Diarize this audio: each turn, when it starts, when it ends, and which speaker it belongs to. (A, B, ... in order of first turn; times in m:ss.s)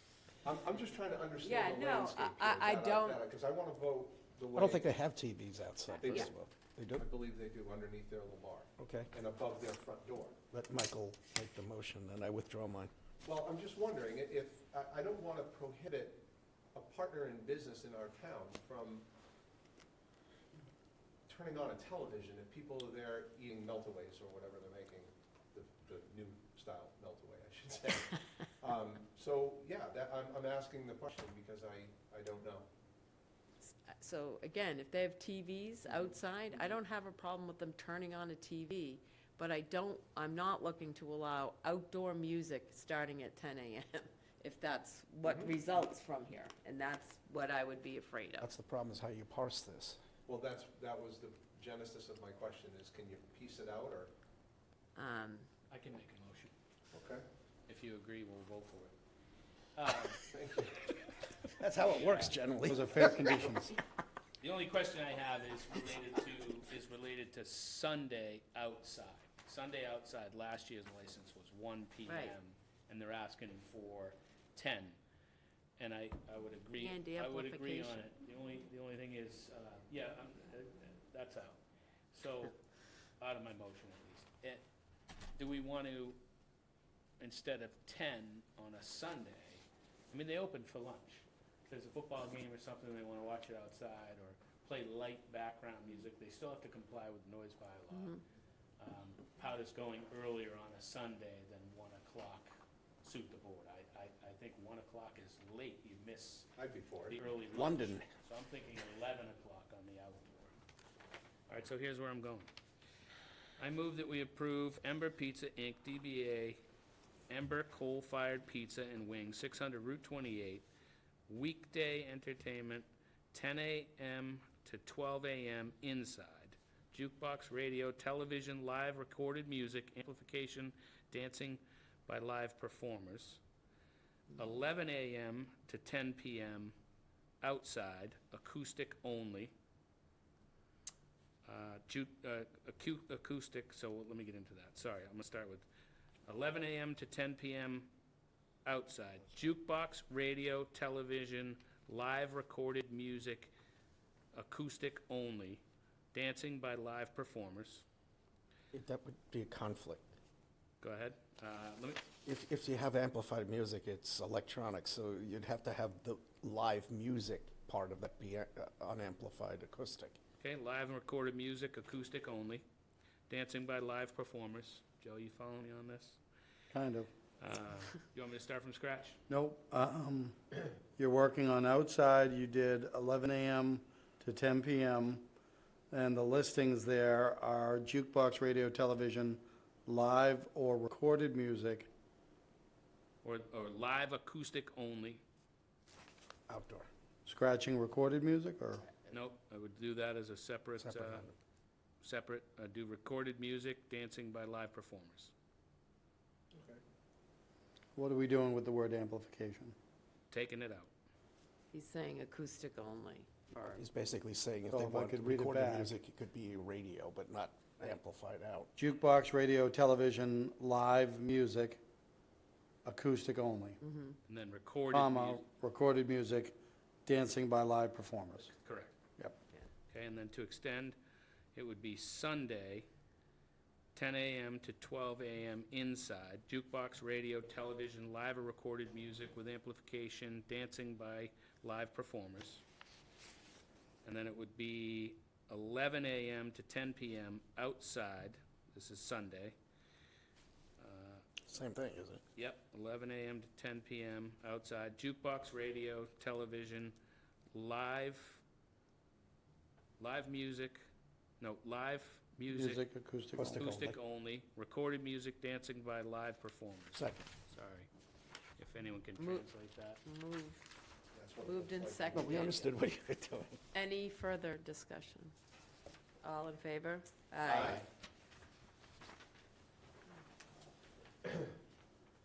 0:00.4-0:04.9 A
0:01.4-0:03.2 B
0:04.5-0:07.1 C
0:05.9-0:06.3 B
0:05.9-0:06.3 A
0:07.0-0:10.4 A
0:08.8-0:09.1 C
0:10.5-0:12.9 C
0:13.2-0:19.0 A
0:21.3-0:32.7 A
0:33.6-0:48.5 B
0:45.2-0:45.6 A
0:48.4-0:50.0 C
0:50.2-0:54.1 A
0:55.0-0:55.5 B
0:55.7-0:56.5 D
0:56.9-0:57.2 A
0:57.7-0:58.9 D
0:59.8-1:00.2 D
1:00.3-1:00.8 A
1:01.5-1:03.5 C
1:01.8-1:02.3 D
1:02.6-1:03.7 E
1:04.4-1:15.0 D
1:12.0-1:12.4 B
1:15.8-1:21.6 D
1:16.8-1:18.0 B
1:22.1-1:22.6 D
1:23.2-1:24.6 D
1:25.3-1:26.2 D
1:27.2-1:38.2 D
1:38.8-1:42.5 D
1:43.0-1:46.5 D
1:46.6-1:47.2 A
1:47.1-1:50.5 D
1:47.5-1:48.1 C
1:51.5-1:52.5 D
1:53.6-1:56.6 D
1:57.3-2:00.7 D
2:01.3-2:13.4 D
2:14.4-2:16.7 D
2:17.4-2:19.5 D
2:21.4-2:25.6 D
2:26.2-2:27.9 D
2:28.6-2:33.5 D
2:34.3-2:37.8 D
2:38.7-2:40.0 C
2:40.8-2:42.0 D
2:42.2-2:50.2 C
2:50.4-2:52.6 D
2:53.3-2:56.2 D
2:56.7-2:57.1 E
2:57.4-2:59.2 D
2:59.3-3:00.4 E
3:01.0-3:05.3 E
3:05.9-3:11.9 E
3:13.2-3:15.2 D
3:16.5-3:16.9 C
3:17.2-3:18.9 E
3:19.1-3:21.2 D
3:20.8-3:21.3 C
3:22.0-3:25.3 D
3:26.5-3:26.8 A
3:28.0-3:29.7 E
3:30.3-3:30.9 D
3:31.7-3:33.8 B
3:33.7-3:38.7 C
3:34.7-3:35.9 E
3:38.8-3:41.8 E
3:42.8-3:43.8 E
3:43.8-3:44.2 B
3:44.3-3:45.4 D
3:44.9-3:48.5 E
3:48.5-3:48.9 D
3:49.9-3:51.0 D
3:51.5-3:52.9 D
3:53.9-4:02.6 D
4:04.0-4:09.5 D
4:10.8-4:11.2 D
4:11.4-4:12.2 C
4:12.4-4:17.0 D
4:17.5-4:18.4 D
4:20.0-4:20.8 D
4:21.4-4:22.8 D
4:22.5-4:23.8 E
4:23.4-4:23.9 C
4:23.5-4:27.9 D
4:26.9-4:27.3 C
4:28.6-4:30.0 D
4:29.2-4:29.4 B
4:30.0-4:30.6 B
4:31.1-4:32.5 A
4:31.4-4:32.7 B
4:32.1-4:33.6 C
4:33.7-4:35.3 B
4:36.2-4:37.8 B
4:37.4-4:37.8 A